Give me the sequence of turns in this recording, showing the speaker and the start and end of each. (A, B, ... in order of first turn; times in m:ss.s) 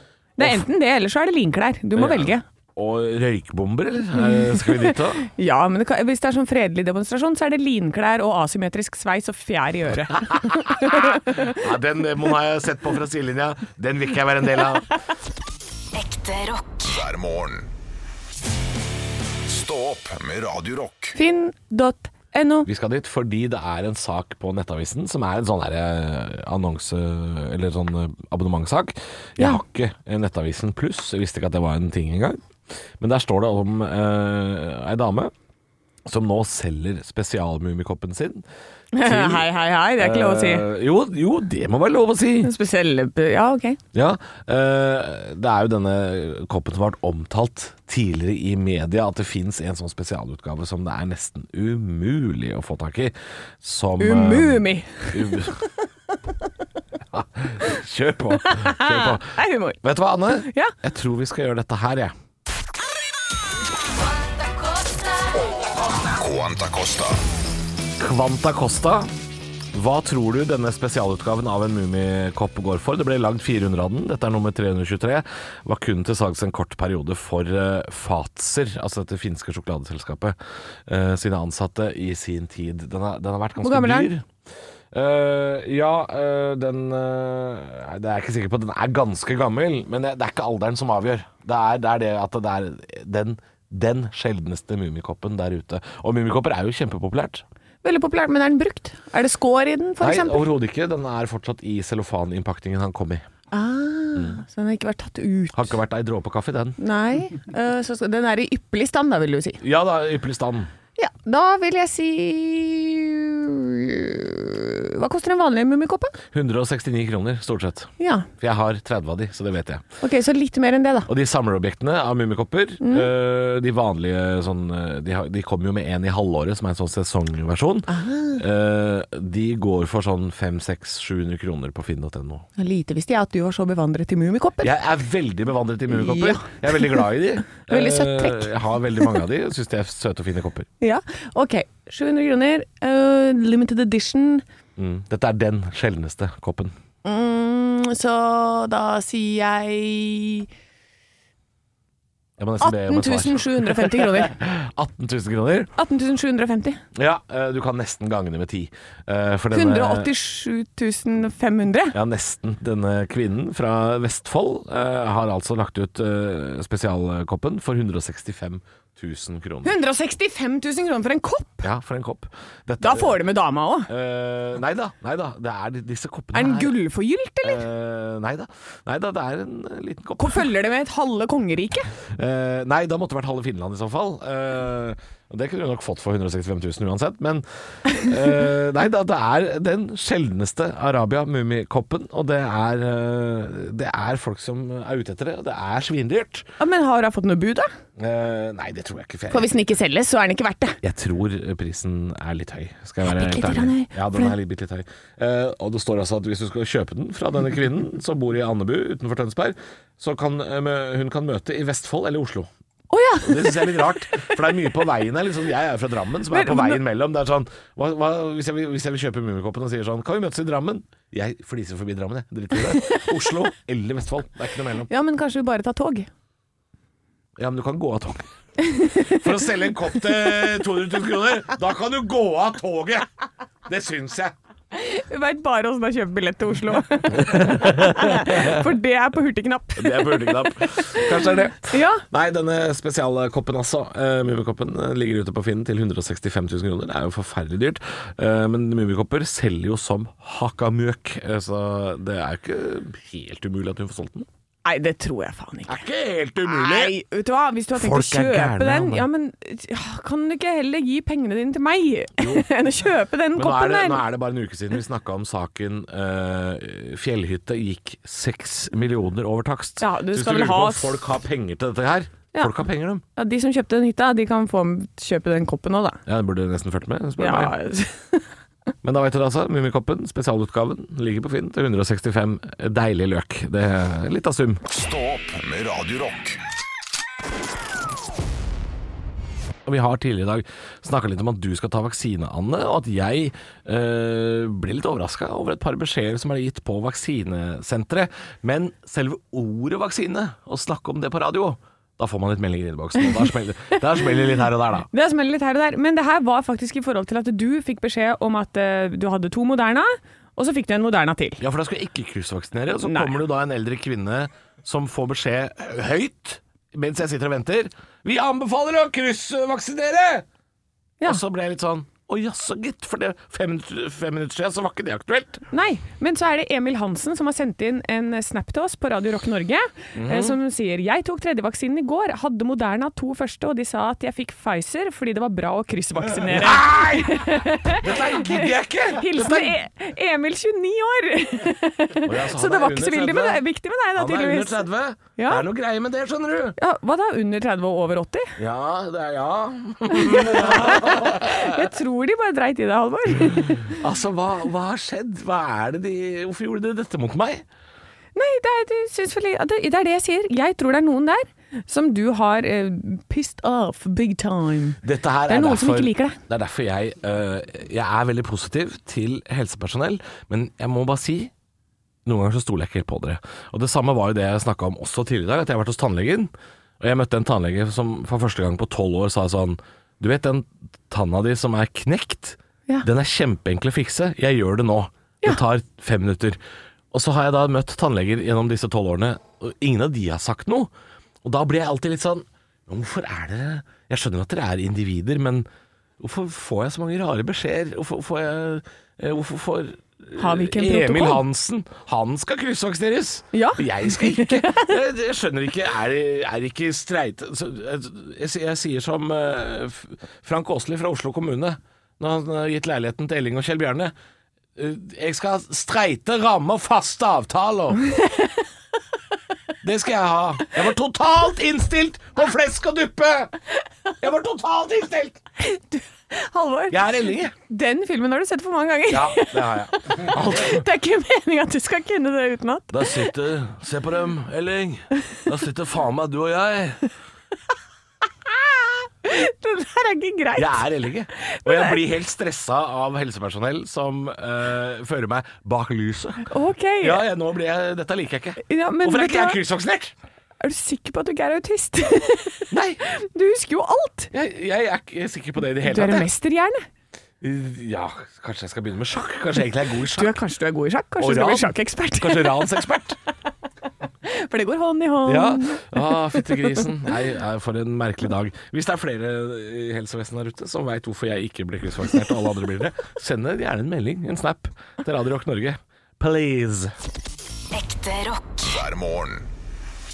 0:00.4-0:02.4 A
0:02.0-0:05.2 B
0:04.2-0:11.6 A
0:10.3-0:14.9 B
0:15.9-0:16.9 C
0:16.9-0:17.7 D
0:19.5-0:21.2 D
0:21.2-0:22.7 A
0:22.7-0:32.4 B
0:33.0-0:35.3 B
0:36.1-0:38.4 B
0:38.9-0:40.7 A
0:39.0-0:42.5 B
0:42.4-0:43.8 A
0:43.9-0:55.6 B
0:54.0-0:55.6 A
0:57.1-0:59.3 B
0:58.4-1:00.7 A
0:59.8-1:02.2 B
1:06.2-1:07.2 D
1:08.0-1:09.1 B
1:09.7-1:24.3 B
1:23.6-1:24.1 A
1:24.9-1:37.4 B
1:37.8-1:40.4 A
1:40.0-1:43.3 B
1:43.5-1:45.7 A
1:45.5-1:46.8 B
1:46.8-1:49.6 A
1:49.6-1:50.7 B
1:51.0-1:56.2 A
1:56.3-1:59.8 B
1:58.0-1:58.3 A
2:00.0-2:01.1 A
2:01.1-2:12.4 B
2:02.8-2:03.1 A
2:07.9-2:08.4 A
2:12.6-2:14.7 A
2:14.6-2:20.7 B
2:15.9-2:17.0 A
2:17.6-2:19.2 A
2:20.8-2:24.4 A
2:24.8-2:26.7 B
2:27.0-2:30.5 A
2:32.4-2:35.7 B
2:32.6-2:34.4 A
2:35.8-2:36.8 A
2:37.0-2:40.1 B
2:39.5-2:42.0 A
2:41.9-2:49.8 B
2:49.6-2:51.7 A
2:51.6-2:53.2 B
2:52.8-2:53.9 A
2:53.9-2:56.7 B
2:56.3-2:57.6 A
2:57.4-3:00.5 B
3:00.2-3:01.9 A
3:02.1-3:16.5 B
3:16.6-3:17.7 A
3:18.0-3:19.5 B
3:19.3-3:20.8 A
3:20.8-3:32.5 B
3:23.0-3:24.4 A
3:32.9-3:34.3 A
3:33.2-3:44.9 B
3:36.3-3:36.8 A
3:42.8-3:43.1 A
3:44.9-3:46.1 A
3:47.4-3:48.3 B
3:48.6-3:49.2 A
3:49.0-3:53.1 B
3:53.7-3:54.4 B
3:54.7-4:02.0 A
3:57.1-3:58.7 B
3:59.8-4:14.3 B
4:14.6-4:15.8 A
4:15.7-4:16.9 B
4:16.4-4:24.0 A
4:17.7-4:19.1 B
4:22.2-4:22.5 B
4:23.4-4:33.0 B
4:29.8-4:31.0 A
4:33.2-4:36.0 A
4:36.1-4:37.6 B
4:37.2-4:38.3 A
4:38.8-4:44.6 B
4:44.7-4:46.4 D
4:49.7-5:04.9 B
5:04.9-5:11.4 A
5:11.4-5:20.3 B
5:12.8-5:13.1 A
5:21.0-5:25.4 B
5:25.5-5:44.6 A
5:30.0-5:30.4 B
5:36.2-5:39.6 B
5:42.0-5:43.4 B
5:44.0-5:46.6 B
5:45.2-5:45.4 A
5:46.6-5:48.4 A
5:48.4-5:51.7 B
5:49.9-5:53.7 A
5:53.3-5:57.4 B
5:58.2-6:06.2 A
6:04.8-6:11.3 B
6:12.1-6:26.4 B
6:26.9-6:30.7 B
6:31.2-6:35.5 B
6:36.0-6:53.9 B
6:40.2-6:41.2 A
6:43.3-6:44.8 A
6:54.6-6:57.9 B
6:57.9-6:58.4 A
6:59.6-7:03.3 B
7:04.0-7:05.2 B
7:05.4-7:06.8 A
7:06.7-7:07.3 B
7:07.5-7:13.1 A
7:08.9-7:10.7 B
7:12.7-7:16.9 B
7:18.3-7:21.8 A
7:20.4-7:29.9 B
7:26.3-7:27.0 A
7:28.4-7:29.4 A
7:30.4-7:34.1 A
7:32.5-7:32.8 B
7:34.1-7:36.1 B
7:35.6-7:36.7 A
7:37.2-7:40.2 B
7:39.9-7:42.6 A
7:41.0-7:43.0 B
7:44.0-7:46.6 A
7:45.1-7:56.7 B
7:57.5-7:58.5 C
7:58.5-7:59.3 D